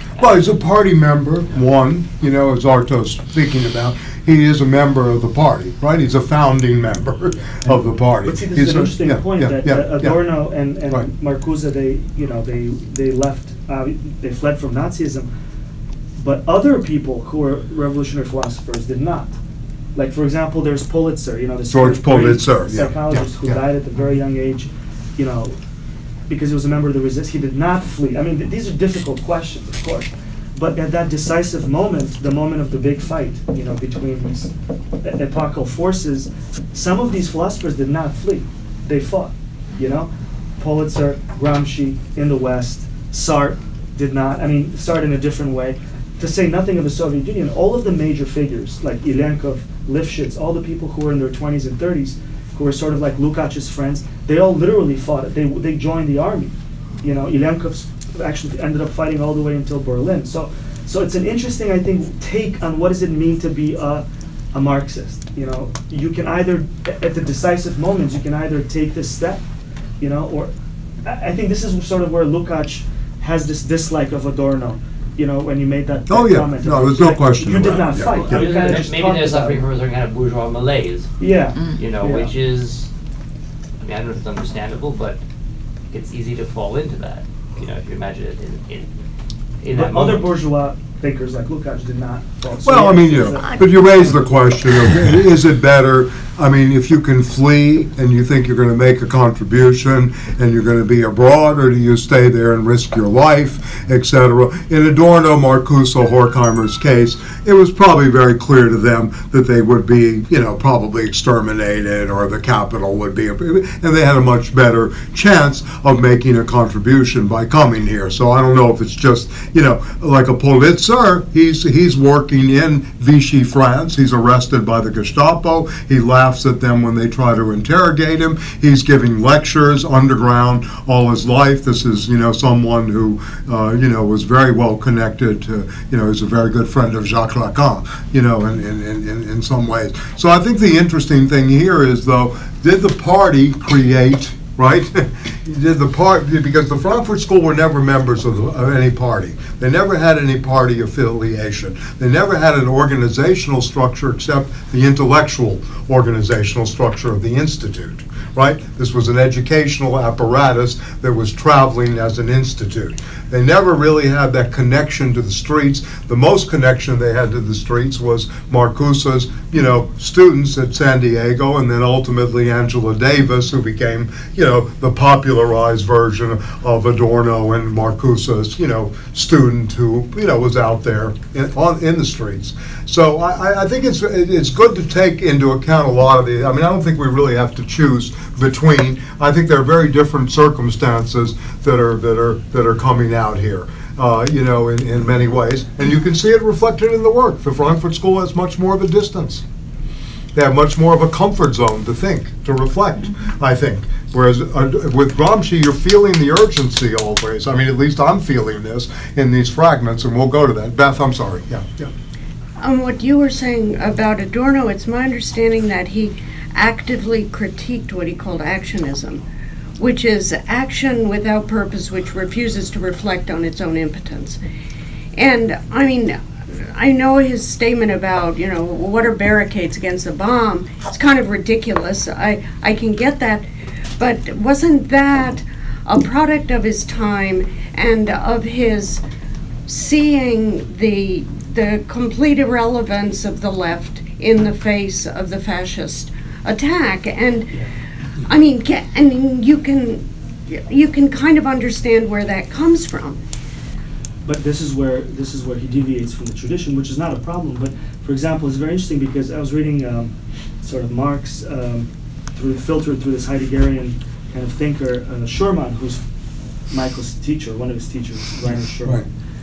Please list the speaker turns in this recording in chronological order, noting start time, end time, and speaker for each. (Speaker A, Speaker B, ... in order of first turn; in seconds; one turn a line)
Speaker A: 0.2-10.2
Speaker B: 8.2-15.3
Speaker B: 16.1-19.4
Speaker B: 19.9-25.6
Speaker A: 21.7-23.6
Speaker B: 26.3-69.4
Speaker B: 70.0-70.5
Speaker B: 71.0-79.7
Speaker A: 76.1-78.5
Speaker C: 78.2-81.1
Speaker B: 81.2-82.3
Speaker C: 81.7-82.9
Speaker C: 83.8-85.2
Speaker C: 85.9-88.9
Speaker C: 89.6-90.3
Speaker B: 89.7-94.3
Speaker A: 92.6-199.4
Speaker A: 200.3-211.9
Speaker D: 212.6-219.2
Speaker D: 219.8-224.4
Speaker D: 225.2-233.4
Speaker D: 234.0-239.0
Speaker D: 239.7-247.6
Speaker D: 248.3-253.2
Speaker B: 254.2-266.0
Speaker B: 266.7-269.1